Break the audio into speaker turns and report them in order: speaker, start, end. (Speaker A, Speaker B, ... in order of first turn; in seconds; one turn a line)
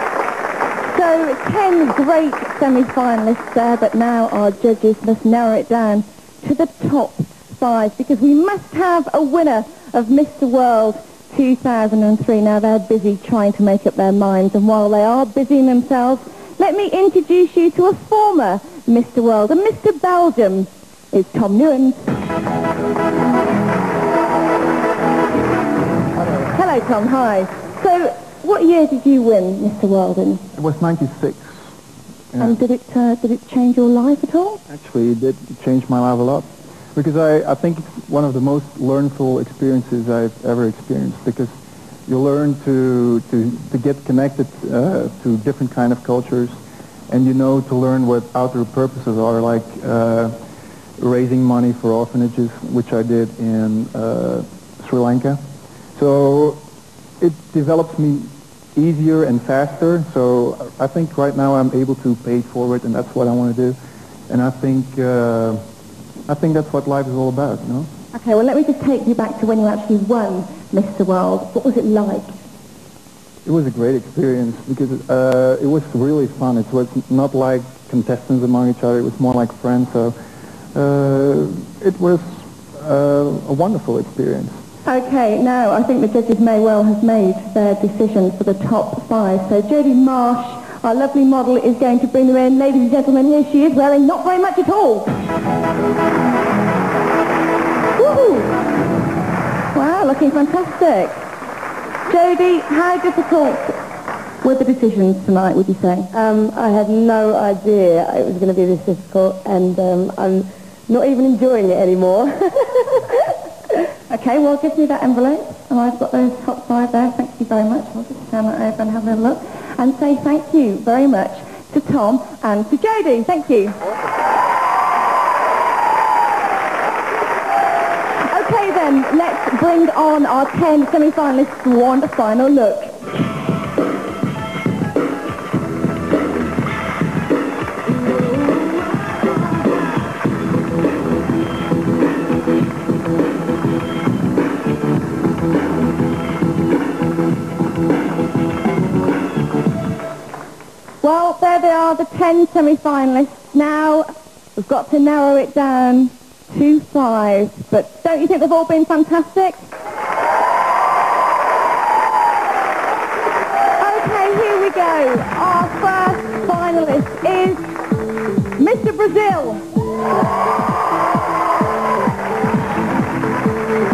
Speaker A: 0.9-22.1
Speaker A: 26.5-30.4
Speaker B: 30.5-31.5
Speaker B: 32.3-32.6
Speaker A: 32.4-34.6
Speaker B: 34.7-41.5
Speaker B: 42.1-46.6
Speaker B: 47.1-50.4
Speaker B: 51.0-55.4
Speaker B: 56.0-56.6
Speaker B: 57.2-63.8
Speaker B: 64.3-65.6
Speaker B: 66.2-67.9
Speaker A: 68.1-72.3
Speaker B: 73.5-80.2
Speaker B: 80.7-84.6
Speaker A: 84.8-95.1
Speaker C: 98.0-98.5
Speaker A: 99.7-101.2
Speaker A: 102.1-103.8
Speaker A: 104.4-106.1
Speaker C: 106.1-113.0
Speaker A: 114.1-123.8
Speaker A: 128.3-132.9
Speaker A: 151.0-159.6
Speaker A: 163.8-167.7
Speaker A: 168.6-169.6